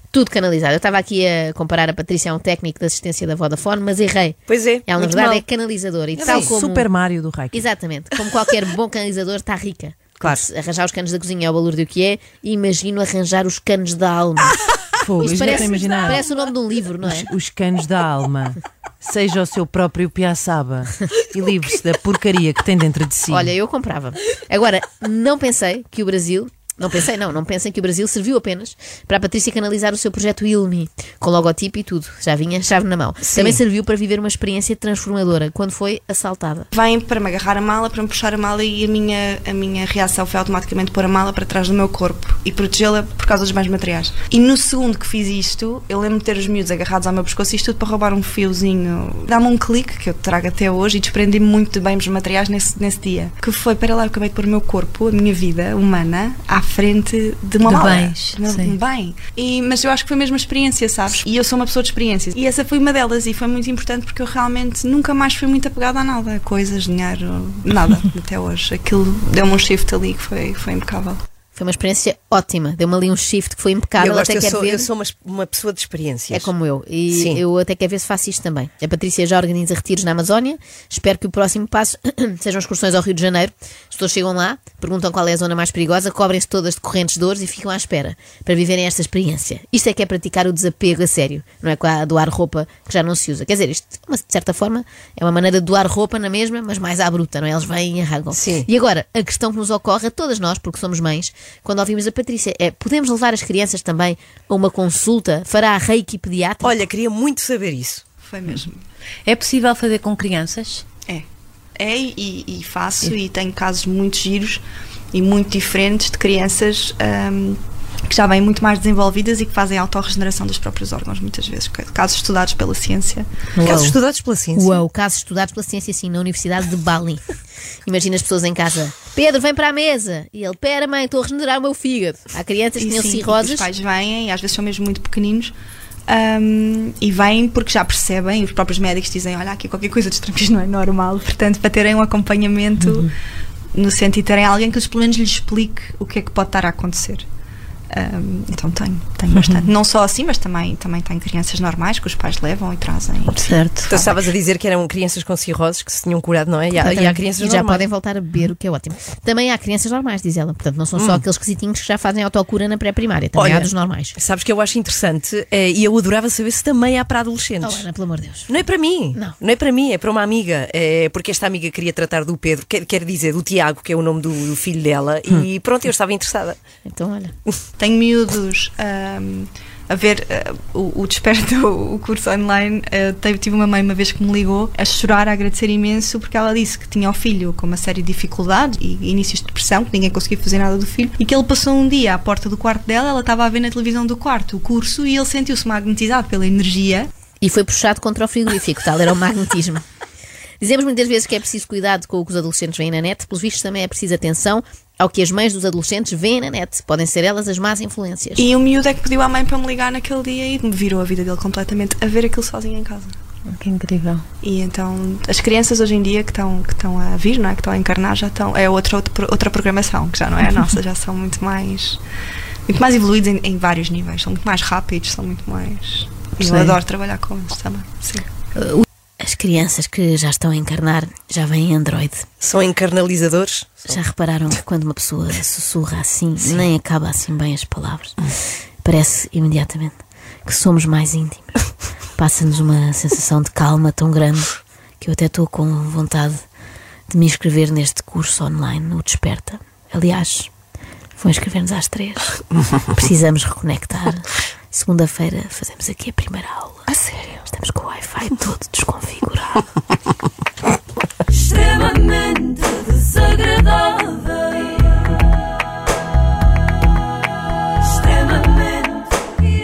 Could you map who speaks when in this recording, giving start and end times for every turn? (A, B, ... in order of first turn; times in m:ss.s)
0:00.1-0:06.9 A
0:04.5-0:05.4 B
0:06.2-0:06.5 B
0:06.3-0:07.6 C
0:07.5-0:14.5 A
0:15.0-0:16.2 C
0:15.2-0:17.3 A
0:17.0-0:23.5 C
0:23.3-0:36.7 A
0:33.2-0:33.6 B
0:36.7-1:11.2 D
0:57.6-0:58.8 E
1:11.5-1:14.9 A
1:14.0-1:16.5 B
1:16.3-1:46.8 A
1:17.1-1:17.4 B
1:38.3-1:38.7 B
1:46.6-1:48.0 B
1:48.2-1:48.8 D
1:49.3-1:50.8 E
1:51.8-1:54.6 D
1:55.1-2:03.4 D
2:03.6-2:04.0 E
2:03.6-2:04.8 B
2:04.6-2:07.2 A
2:07.8-2:13.7 A
2:12.8-2:15.5 D
2:16.1-2:23.1 D
2:23.8-2:27.2 D
2:27.9-2:33.5 D
2:33.3-2:34.2 E
2:33.9-2:37.9 B
2:36.7-2:44.2 A
2:41.0-2:41.2 B
2:43.4-2:47.8 B
2:47.6-2:48.5 A
2:48.5-2:56.6 B
2:56.9-2:57.3 A
2:57.8-3:17.1 D
3:17.4-3:19.8 A
3:20.6-3:28.5 A
3:28.4-3:33.1 D
3:33.5-3:34.2 E
3:34.4-3:42.0 D
3:42.7-3:48.3 D
3:46.4-3:46.7 E
3:48.6-3:52.3 A
3:52.4-3:54.0 B
3:53.9-3:58.2 A
3:58.8-4:01.6 A
4:02.2-4:06.4 A
4:07.1-4:10.5 A
4:11.2-4:16.9 A
4:17.4-4:19.7 A